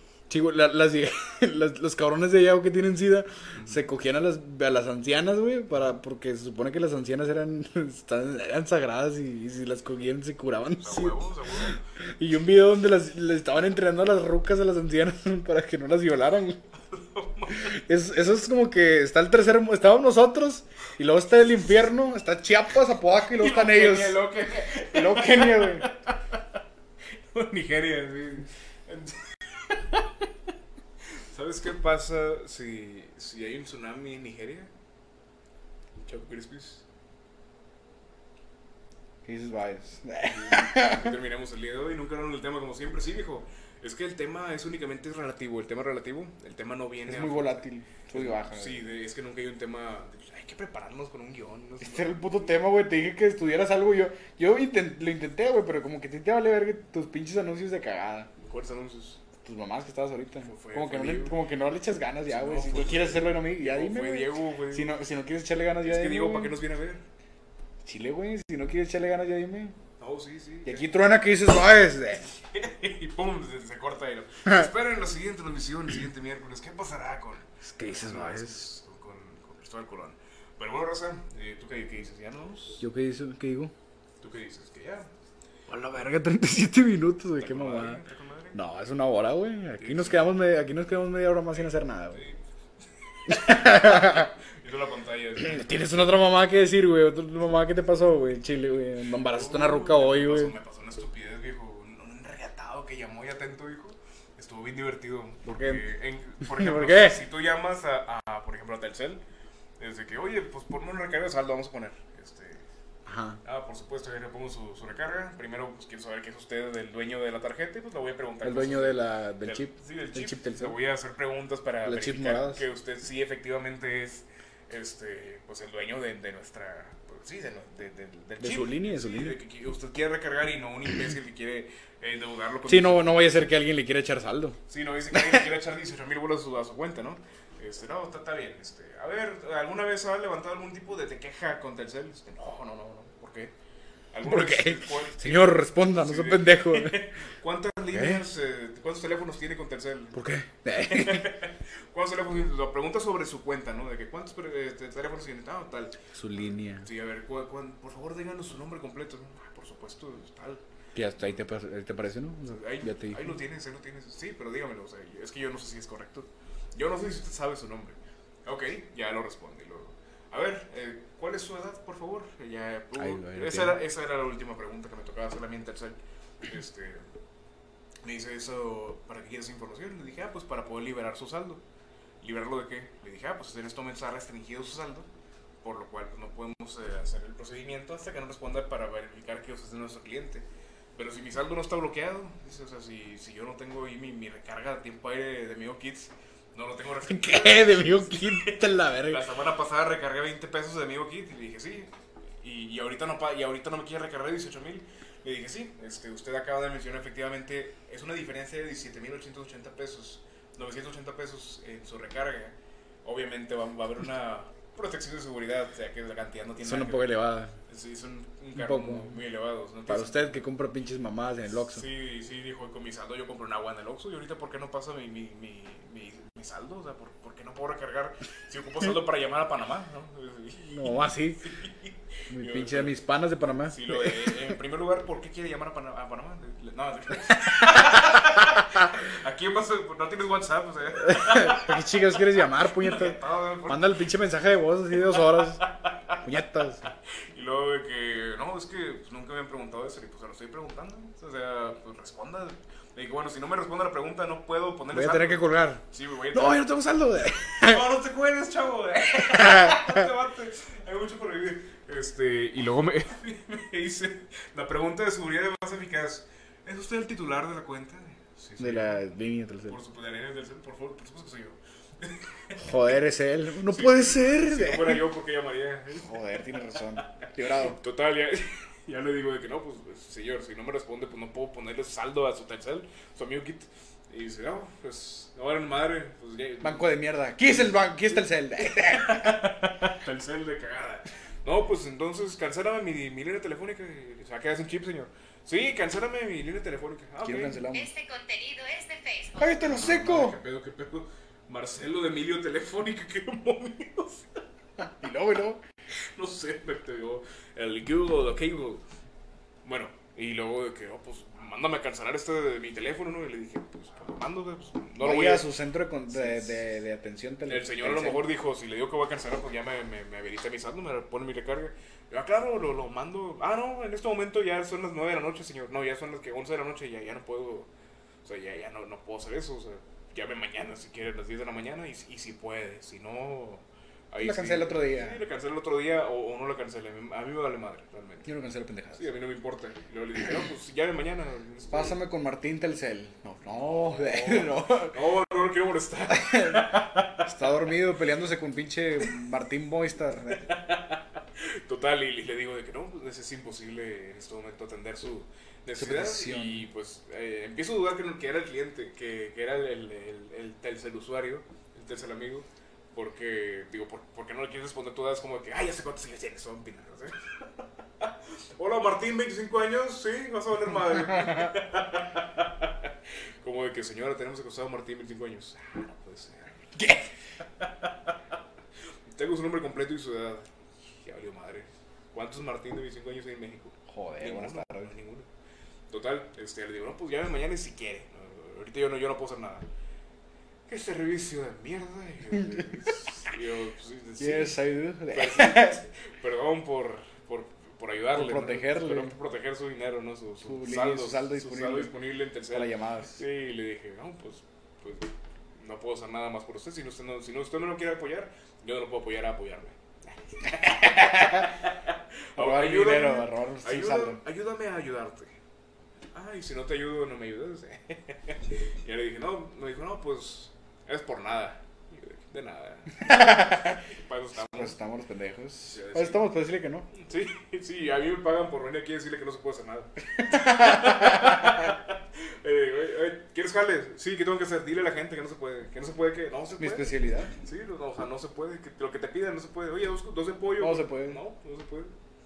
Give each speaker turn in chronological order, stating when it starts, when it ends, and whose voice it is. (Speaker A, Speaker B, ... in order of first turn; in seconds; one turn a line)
Speaker A: 0.3-16.6
Speaker B: 3.5-3.8
Speaker B: 10.8-11.8
Speaker B: 16.8-17.8
Speaker A: 17.5-25.9
Speaker B: 23.3-26.4
Speaker B: 27.1-30.1
Speaker B: 31.2-34.7
Speaker B: 36.0-36.8
Speaker A: 39.2-41.1
Speaker B: 40.2-52.5
Speaker A: 47.0-48.8
Speaker A: 51.8-58.3
Speaker B: 58.4-59.2
Speaker A: 59.4-66.5
Speaker B: 60.4-61.4
Speaker B: 62.3-65.0
Speaker B: 65.8-67.0
Speaker A: 67.8-69.8
Speaker B: 70.0-70.9
Speaker A: 70.6-72.3
Speaker B: 72.3-82.8
Speaker A: 77.6-78.7
Speaker A: 82.8-83.7
Speaker B: 84.2-85.1
Speaker A: 85.7-88.0
Speaker B: 87.4-88.6
Speaker A: 88.5-92.2
Speaker B: 89.8-90.3
Speaker B: 91.5-92.4
Speaker B: 93.1-95.8
Speaker A: 93.3-94.3
Speaker A: 95.4-100.5
Speaker B: 99.2-109.2
Speaker A: 105.4-105.8
Speaker A: 106.4-107.2
Speaker B: 109.8-112.7
Speaker A: 113.0-113.4
Speaker B: 113.4-133.3
Speaker A: 118.4-120.8
Speaker A: 121.8-122.6
Speaker A: 128.4-129.4
Speaker A: 132.7-134.6
Speaker B: 134.7-143.5
Speaker A: 135.1-135.4
Speaker B: 144.1-150.2
Speaker A: 144.2-147.0
Speaker A: 147.9-148.2
Speaker A: 150.1-151.3
Speaker B: 150.7-160.6
Speaker A: 156.1-156.9
Speaker A: 160.9-163.3
Speaker B: 162.5-177.1
Speaker A: 172.9-173.8
Speaker B: 178.0-181.6
Speaker B: 182.2-185.1
Speaker B: 185.6-217.1
Speaker A: 197.0-199.2
Speaker A: 216.6-217.5
Speaker B: 217.7-220.4
Speaker A: 218.5-219.2
Speaker A: 219.9-221.8
Speaker B: 221.7-230.9
Speaker A: 230.6-231.5
Speaker B: 231.4-232.9
Speaker A: 232.3-234.5
Speaker B: 233.7-242.1
Speaker A: 237.6-238.2
Speaker A: 241.0-245.6
Speaker B: 242.7-244.1
Speaker B: 245.4-246.2
Speaker A: 246.2-246.8
Speaker B: 246.9-256.7
Speaker A: 254.9-255.8
Speaker A: 256.3-257.8
Speaker B: 257.5-269.0
Speaker A: 259.3-260.1
Speaker A: 268.6-269.8
Speaker B: 269.7-272.7
Speaker A: 272.6-275.0
Speaker B: 273.7-276.2
Speaker A: 276.0-277.8
Speaker B: 277.6-297.6
Speaker A: 286.6-289.8
Speaker A: 297.2-297.9
Speaker C: 297.6-299.8
Speaker A: 299.4-300.4
Speaker B: 299.6-304.3
Speaker A: 304.8-305.6
Speaker B: 306.1-308.8
Speaker B: 309.6-315.5
Speaker A: 315.0-318.3
Speaker B: 316.1-316.5
Speaker B: 317.4-327.7
Speaker B: 328.2-338.3
Speaker A: 334.2-335.2
Speaker A: 338.2-339.1
Speaker B: 338.9-342.0
Speaker A: 341.7-345.0
Speaker B: 343.7-347.3
Speaker A: 346.1-350.5
Speaker B: 350.4-367.4
Speaker A: 355.8-356.6
Speaker B: 368.0-377.0
Speaker A: 376.8-377.0
Speaker B: 377.6-378.1
Speaker B: 379.1-385.3
Speaker A: 383.9-384.9
Speaker B: 385.9-389.7
Speaker B: 390.7-415.3
Speaker A: 394.2-395.8
Speaker A: 398.1-399.1
Speaker A: 400.4-401.9
Speaker A: 402.5-403.2
Speaker A: 410.5-411.5
Speaker A: 412.4-414.2
Speaker B: 416.1-424.8
Speaker A: 423.0-423.8
Speaker A: 424.4-426.9
Speaker B: 425.6-426.3
Speaker B: 426.9-441.9
Speaker A: 430.2-431.6
Speaker A: 436.6-437.3
Speaker A: 440.6-441.2